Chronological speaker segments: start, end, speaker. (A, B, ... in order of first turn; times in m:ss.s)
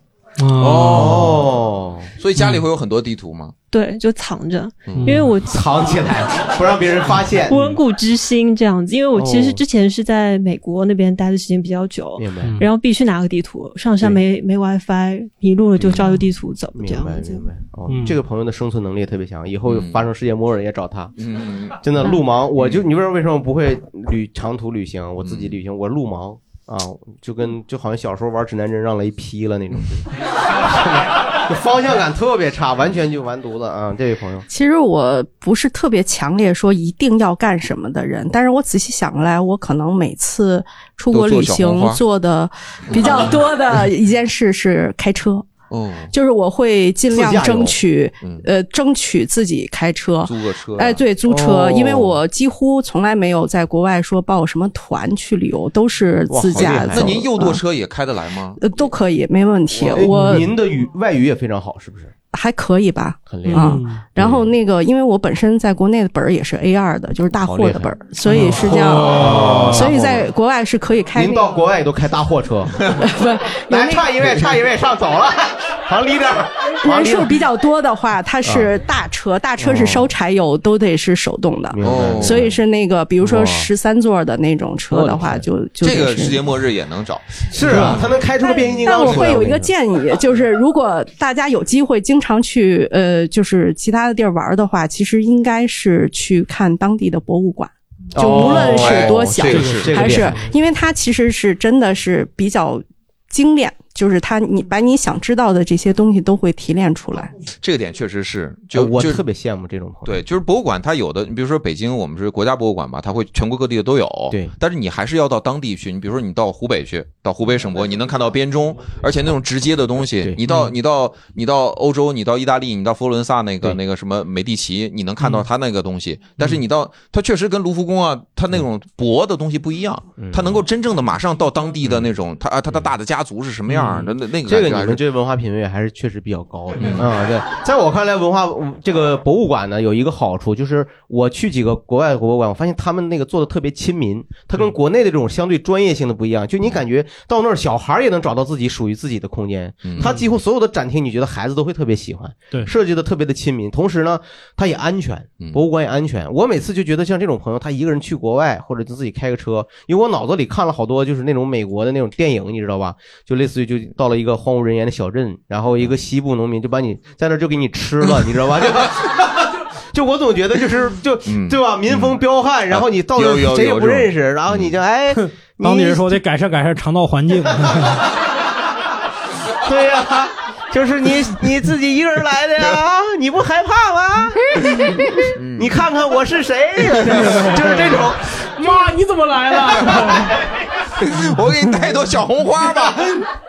0:00.4-0:01.3 A
0:00.6-0:01.5 B
0:00.9-0:02.1 C
0:02.2-0:03.5 B
0:02.4-0:02.6 A
0:03.7-0:05.6 D
0:04.8-0:05.2 B
0:05.0-0:05.3 A
0:05.4-0:07.6 C
0:07.5-0:17.5 D
0:07.5-0:07.8 A
0:09.1-0:09.6 C
0:12.2-0:12.6 C
0:12.4-0:12.7 A
0:15.8-0:16.2 C
0:16.7-0:21.1 C
0:17.9-0:18.2 A
0:19.7-0:20.0 B
0:21.2-0:21.9 B
0:21.8-0:34.5 C
0:22.6-0:22.8 B
0:25.2-0:25.6 B
0:34.5-0:45.5 E
0:41.1-0:42.0 B
0:42.9-0:43.4 B
0:45.7-0:46.1 B
0:46.1-0:57.6 E
0:47.1-0:47.8 C
0:50.2-0:51.0 B
0:51.2-0:52.2 C
0:56.3-0:57.2 C
0:56.5-0:58.6 B
0:58.6-1:00.5 E
0:59.7-1:00.0 B
0:59.9-1:02.1 C
1:00.0-1:00.5 A
1:02.3-1:11.6 E
1:03.3-1:04.5 C
1:03.5-1:04.0 A
1:07.4-1:07.9 C
1:08.3-1:09.9 A
1:08.5-1:10.3 C
1:11.1-1:12.9 C
1:12.9-1:14.4 E
1:13.7-1:17.4 C
1:16.8-1:26.4 E
1:18.4-1:18.7 C
1:19.6-1:20.1 C
1:21.7-1:22.6 C
1:21.8-1:22.5 B
1:23.2-1:23.7 C
1:24.9-1:25.4 C
1:25.8-1:29.4 B
1:27.5-1:29.7 C
1:28.4-1:47.3 E
1:38.1-1:40.3 C
1:38.2-1:40.4 B
1:38.2-1:38.6 A
1:39.5-1:40.5 A
1:47.6-1:49.2 B
1:48.7-1:50.1 C
1:50.0-2:15.0 B
2:10.2-2:10.6 C
2:13.7-2:56.2 C
2:16.8-2:17.1 B
2:29.8-2:30.1 B
2:30.0-2:30.2 A
2:51.2-2:52.2 B
2:52.7-2:54.8 B
2:55.2-2:58.0 A
2:59.6-3:08.9 C
3:05.3-3:05.8 B
3:07.2-3:07.9 A
3:08.6-3:10.3 A
3:09.8-3:10.1 B
3:11.0-3:13.3 B